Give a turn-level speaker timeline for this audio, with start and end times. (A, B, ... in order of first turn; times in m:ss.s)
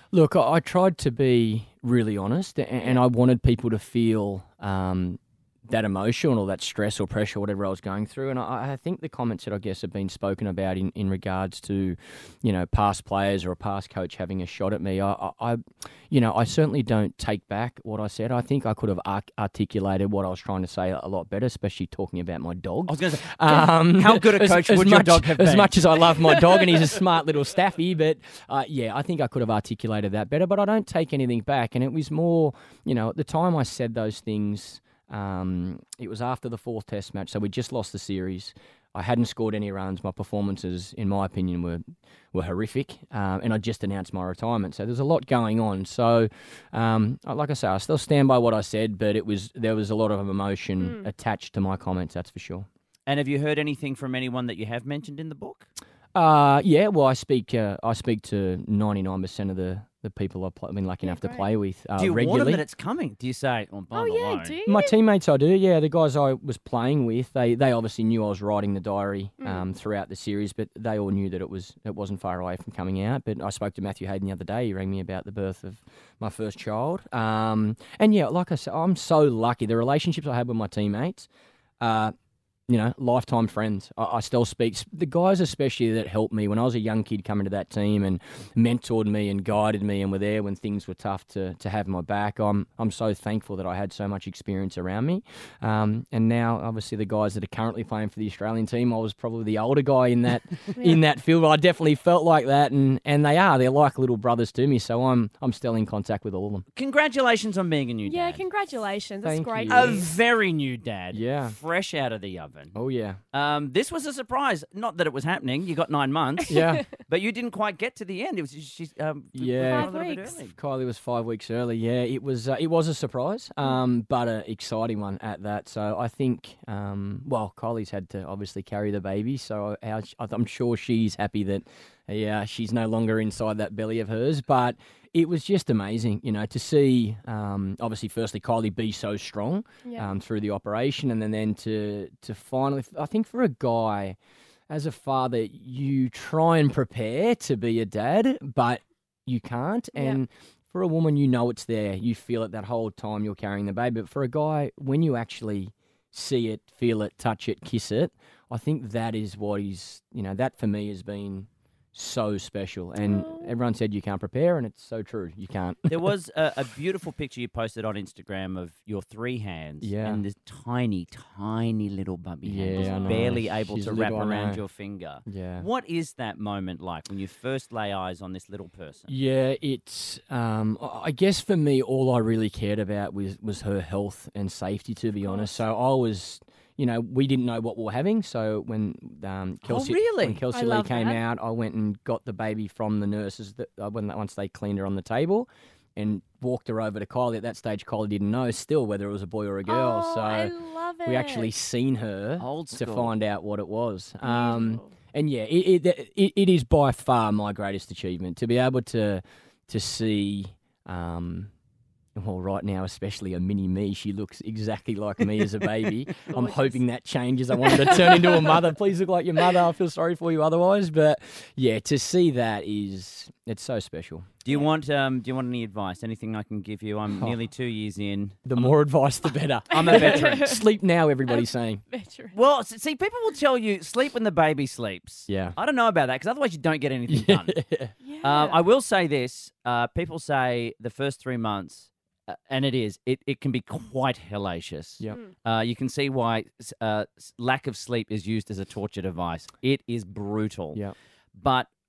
0:00.1-0:52.7 A
0:22.9-0:26.0 B
0:50.8-0:51.1 C
0:53.1-0:55.7 B
0:56.2-1:02.6 A
1:01.0-1:01.5 C
1:02.0-1:04.6 B
1:03.9-1:05.0 C
1:04.6-1:21.3 A
1:09.4-1:09.7 C
1:21.8-1:22.1 A
1:22.7-1:46.6 A
1:40.8-1:41.0 C
1:46.8-1:48.4 B
1:48.1-1:50.1 C
1:49.2-1:50.1 A
1:49.7-1:52.8 B
1:51.1-1:51.6 A
1:52.8-1:53.2 A
1:53.3-2:00.5 B
1:56.5-1:56.8 A
1:56.5-1:56.8 C
1:59.4-2:24.2 A
1:59.6-2:00.4 C
2:19.8-2:20.1 C
2:24.7-2:46.1 A
2:30.0-2:30.2 C
2:43.0-2:43.5 C
2:45.9-2:59.1 B
2:49.8-2:50.2 A
2:52.4-2:54.6 A
2:52.8-2:53.4 C
2:55.3-2:55.7 A
2:59.1-3:20.5 A
3:05.2-3:05.6 C
3:09.6-3:10.4 B
3:10.5-3:11.2 C
3:19.7-3:21.5 C
3:21.1-3:31.5 A
3:22.4-3:23.2 B
3:24.2-3:24.9 C
3:32.2-3:44.4 A
3:36.3-3:36.8 C
3:37.6-3:38.6 C
3:44.4-3:48.8 B
3:47.1-3:47.4 A
3:48.5-3:51.8 A
3:49.7-3:50.6 C
3:49.7-3:50.5 B
3:51.3-3:52.4 C
3:52.3-3:57.6 B
3:55.3-3:55.6 A
3:57.1-3:57.9 A
3:58.0-3:58.6 C
3:58.2-4:10.8 B
4:11.4-4:11.7 B